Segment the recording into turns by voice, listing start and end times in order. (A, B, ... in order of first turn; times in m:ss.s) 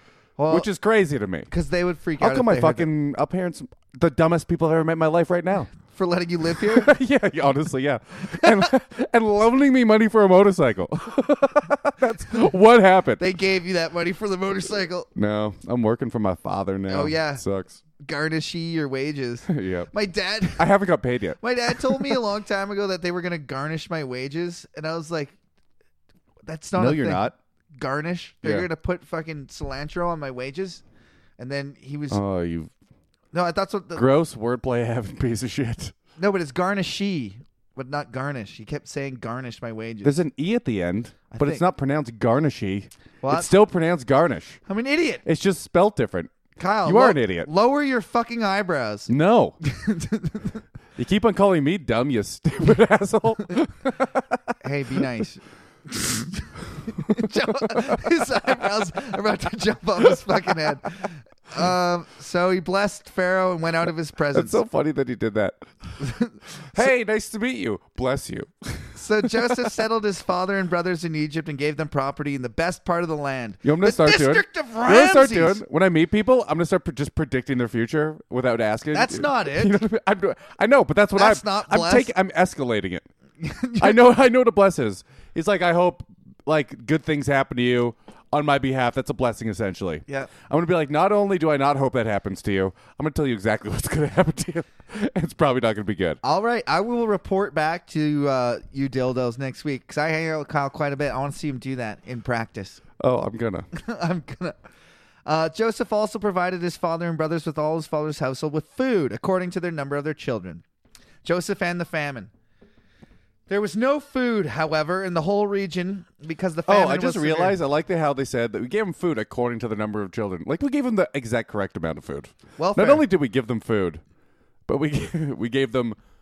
0:00.4-0:00.7 A
0:00.5-0:01.5 B
0:01.5-0:02.9 A
0:02.2-0:05.7 B
0:05.9-0:06.9 A
0:06.5-0:13.2 B
0:08.4-0:08.7 A
0:13.2-0:15.1 A
0:15.2-0:17.8 B
0:16.9-0:17.4 A
0:18.0-0:20.7 A
0:19.5-0:19.9 B
0:20.6-0:22.2 B
0:21.4-0:25.3 A
0:26.5-0:30.8 A
0:26.8-0:27.4 B
0:28.4-0:28.7 B
0:31.4-0:32.2 A
0:32.1-0:32.7 B
0:33.3-0:34.0 A
0:34.0-0:35.9 B
0:36.2-0:40.2 A
0:40.0-0:44.6 B
0:41.3-0:41.6 A
0:43.2-0:43.5 A
0:44.7-0:45.2 A
0:45.2-0:46.3 B
0:46.6-0:49.1 A
0:46.8-0:47.5 B
0:49.1-0:49.6 B
0:49.6-0:50.6 A
0:51.0-0:54.4 B
0:54.6-1:04.6 A
0:57.0-0:58.0 B
1:04.3-1:06.0 B
1:06.0-1:06.4 A
1:06.7-1:09.7 B
1:09.0-1:15.6 A
1:13.6-1:23.1 B
1:18.9-1:19.8 A
1:21.2-1:22.1 A
1:23.4-1:24.0 A
1:23.8-1:36.2 B
1:36.2-1:42.8 A
1:43.0-1:43.7 B
1:43.7-1:44.6 A
1:45.3-1:50.6 A
1:51.2-1:52.3 A
1:53.5-1:57.6 A
1:56.7-2:04.0 B
2:02.6-2:03.1 A
2:04.7-2:06.0 B